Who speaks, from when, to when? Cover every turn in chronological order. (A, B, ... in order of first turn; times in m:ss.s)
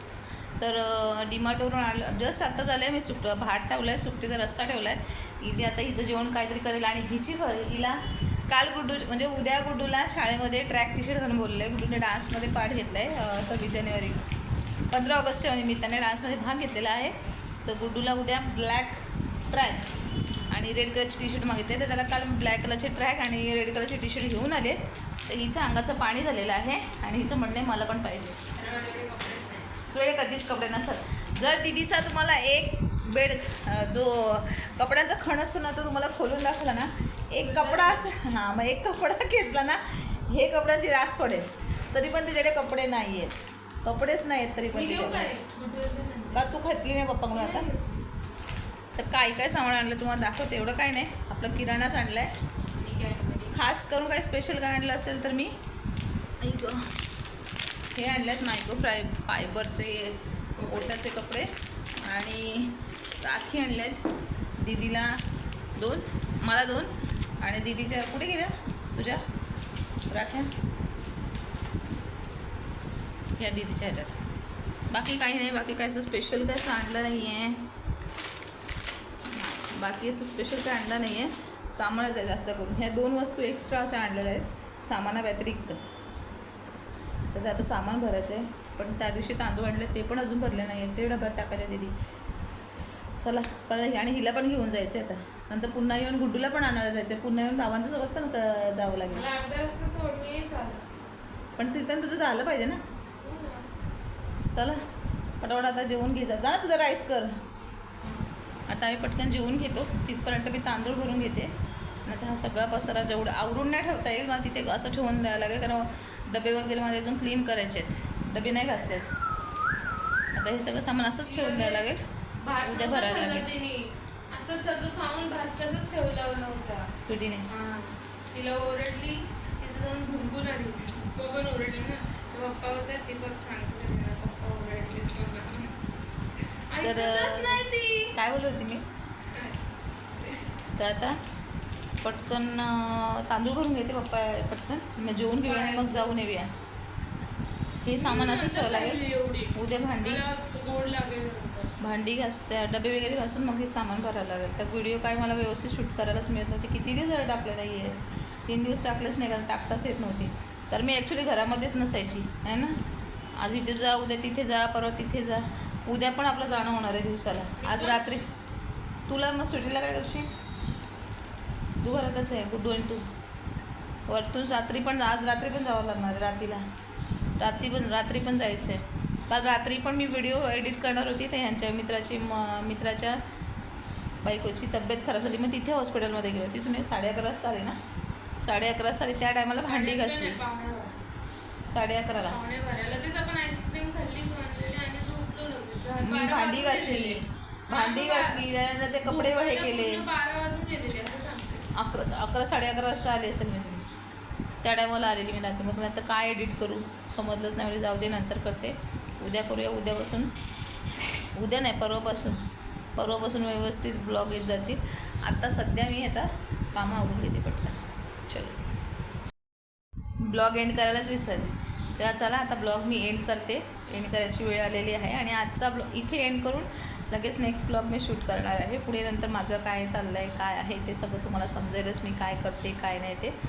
0:00.6-0:14.2 A
0:14.9-0:19.0 A
0:19.5-0:19.9 A
0:20.5-0:28.4 A
0:28.6-0:29.7 B
0:29.9-0:45.3 A
0:37.4-0:38.1 B
0:44.7-0:46.5 B
0:46.3-0:47.7 A
0:47.3-0:48.1 B
0:49.0-0:52.3 A
0:52.8-0:53.6 B
0:53.5-0:55.5 A
0:56.4-0:56.9 A
0:58.0-1:01.5 A
1:00.6-1:01.0 B
1:02.0-1:04.0 A
1:04.6-1:05.2 A
1:05.8-1:06.9 A
1:07.4-1:09.2 A
1:10.1-1:10.5 A
1:13.4-1:14.2 A
1:14.9-1:17.6 A
1:19.3-1:25.8 A
1:27.3-1:31.9 A
1:33.2-1:39.3 A
1:39.1-1:40.8 B
1:41.6-1:42.8 A
1:43.2-1:43.7 B
1:44.5-1:44.8 A
1:45.4-1:47.3 A
1:48.7-1:51.5 A
1:52.1-1:59.1 A
2:00.4-2:02.0 A
2:01.2-2:01.9 B
2:02.4-2:06.9 B
2:02.6-2:03.5 A
2:07.0-2:07.5 A
2:07.5-2:15.8 B
2:16.4-2:18.1 B
2:16.8-2:18.8 A
2:19.3-2:19.6 B
2:20.2-2:20.5 B
2:20.8-2:21.2 A
2:22.0-2:26.5 A
2:25.4-2:26.2 B
2:27.8-2:29.0 A
2:27.9-2:31.7 B
2:29.5-2:30.2 A
2:31.8-2:37.9 A
2:38.5-2:42.8 A
2:43.4-2:48.2 A
2:47.6-2:48.1 B
2:49.1-2:50.3 A
2:51.8-2:53.0 A
2:54.1-2:56.6 A
2:57.4-3:03.2 A
3:04.2-3:07.8 A
3:08.4-3:10.4 A
3:09.6-3:11.0 B
3:11.7-3:12.4 A
3:12.2-3:18.5 B
3:16.0-3:20.1 A
3:19.0-3:21.7 B
3:21.8-3:23.9 A
3:24.6-3:30.3 A
3:31.4-3:32.4 A
3:33.0-3:37.8 A
3:38.3-3:38.6 A
3:40.2-3:53.4 A